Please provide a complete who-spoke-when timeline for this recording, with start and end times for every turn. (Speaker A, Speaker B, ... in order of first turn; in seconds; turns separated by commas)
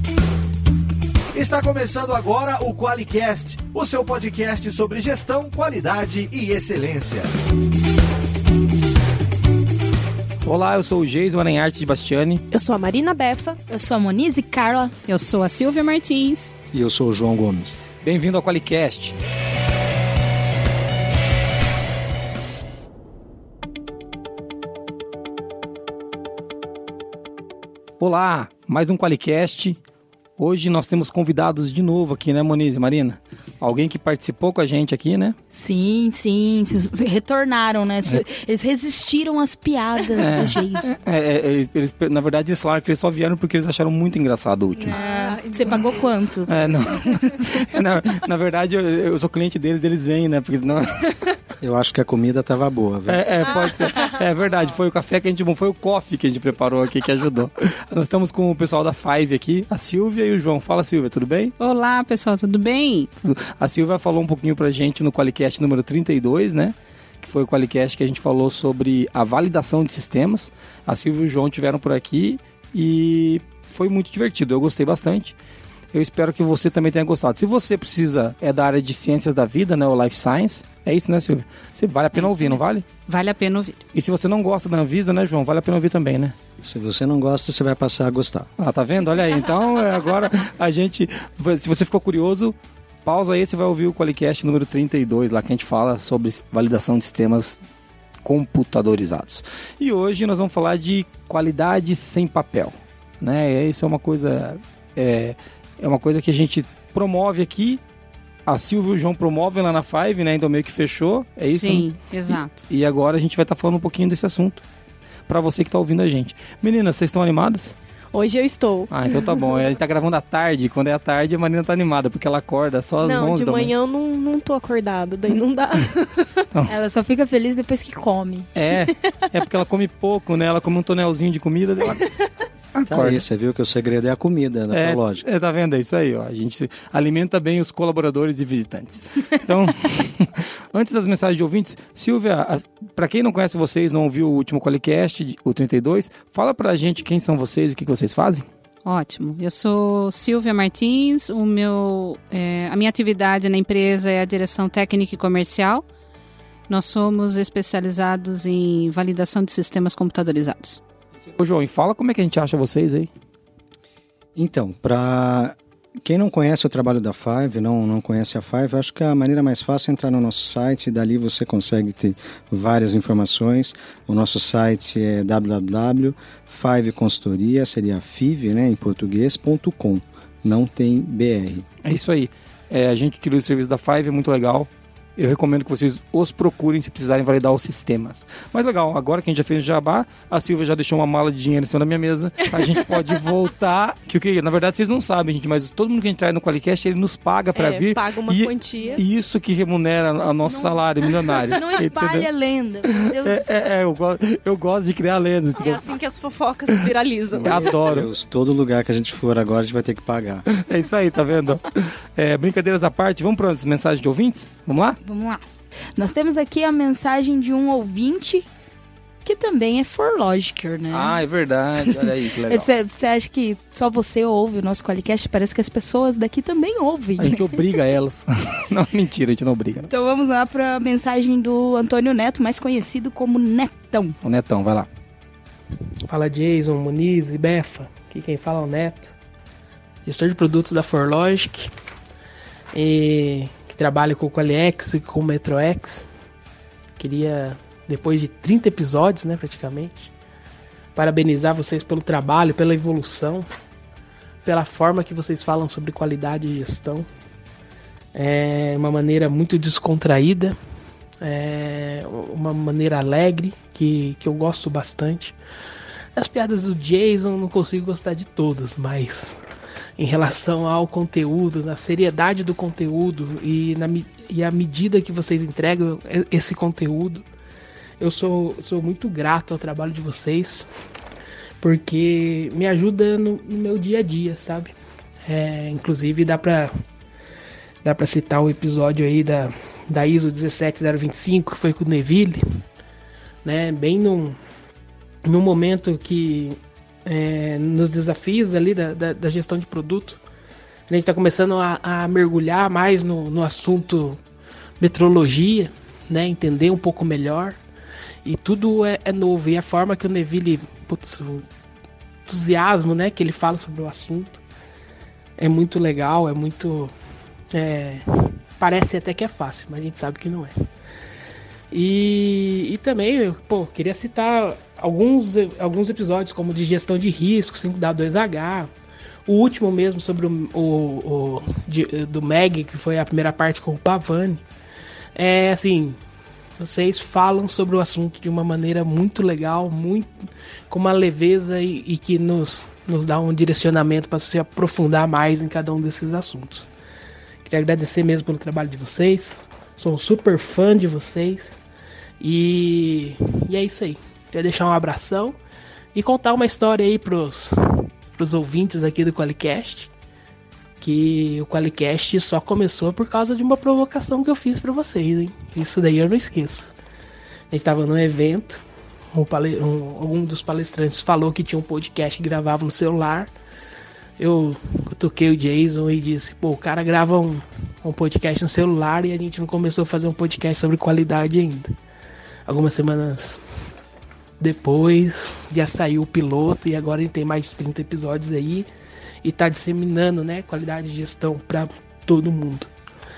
Speaker A: 1.3-7.3, Speaker B: 10.4-12.4, Speaker C: 12.5-13.6, Speaker D: 13.7-14.9, Speaker E: 15.1-16.5, Speaker F: 16.7-17.8, Speaker B: 18.0-19.2, Speaker B: 28.0-29.8, Speaker B: 30.4-35.4, Speaker D: 35.5-40.9, Speaker B: 40.2-45.0, Speaker D: 44.9-46.6, Speaker C: 44.9-46.1, Speaker B: 46.5-51.2, Speaker D: 47.1-47.5, Speaker F: 51.6-53.2, Speaker B: 53.1-61.5, Speaker C: 53.6-54.0, Speaker E: 61.6-63.1, Speaker B: 63.2-75.3, Speaker B: 75.9-82.8, Speaker E: 82.1-83.8, Speaker B: 83.9-86.3, Speaker F: 86.6-88.5, Speaker B: 88.6-97.6, Speaker B: 98.2-107.8, Speaker B: 108.5-114.6, Speaker E: 111.4-112.6, Speaker B: 115.3-117.7, Speaker C: 118.1-119.2, Speaker B: 118.9-123.7, Speaker C: 123.0-126.3, Speaker D: 126.7-128.6, Speaker B: 128.5-132.1, Speaker B: 132.7-133.2, Speaker F: 132.9-135.2, Speaker B: 134.7-148.4, Speaker E: 148.8-155.8, Speaker E: 156.7-160.8, Speaker B: 161.3-163.1, Speaker F: 164.3-181.7, Speaker B: 181.8-202.3, Speaker C: 197.5-199.0, Speaker D: 200.4-203.4, Speaker B: 202.9-206.0, Speaker C: 205.6-207.7, Speaker F: 207.3-210.4, Speaker B: 207.4-208.1, Speaker B: 210.5-215.0, Speaker D: 215.0-215.4, Speaker D: 215.9-218.4, Speaker D: 219.2-221.2, Speaker B: 220.9-222.7, Speaker D: 221.8-227.5, Speaker B: 227.2-229.9, Speaker D: 229.9-234.2, Speaker B: 234.2-234.9, Speaker G: 236.1-239.1, Speaker G: 240.0-241.7, Speaker G: 242.7-246.1, Speaker G: 247.0-250.1, Speaker G: 250.9-253.4, Speaker G: 254.4-257.1, Speaker G: 258.1-260.6, Speaker G: 261.2-265.3, Speaker G: 266.1-269.4, Speaker G: 270.0-277.2, Speaker G: 278.0-280.7, Speaker G: 281.6-286.7, Speaker G: 287.8-292.6, Speaker G: 293.4-294.4, Speaker G: 295.2-300.2, Speaker G: 300.9-304.2, Speaker G: 304.8-307.6, Speaker G: 308.2-311.4, Speaker G: 312.3-314.4, Speaker G: 315.4-316.9, Speaker G: 317.5-320.5, Speaker G: 321.7-328.7, Speaker G: 329.2-334.4, Speaker G: 335.1-336.0, Speaker G: 336.6-346.7, Speaker G: 347.4-351.6, Speaker G: 352.2-355.4, Speaker G: 355.9-359.9, Speaker G: 360.8-366.7, Speaker G: 367.5-368.6, Speaker G: 369.1-373.3, Speaker G: 374.2-381.7, Speaker G: 382.4-383.4, Speaker G: 384.4-388.7, Speaker G: 389.2-392.7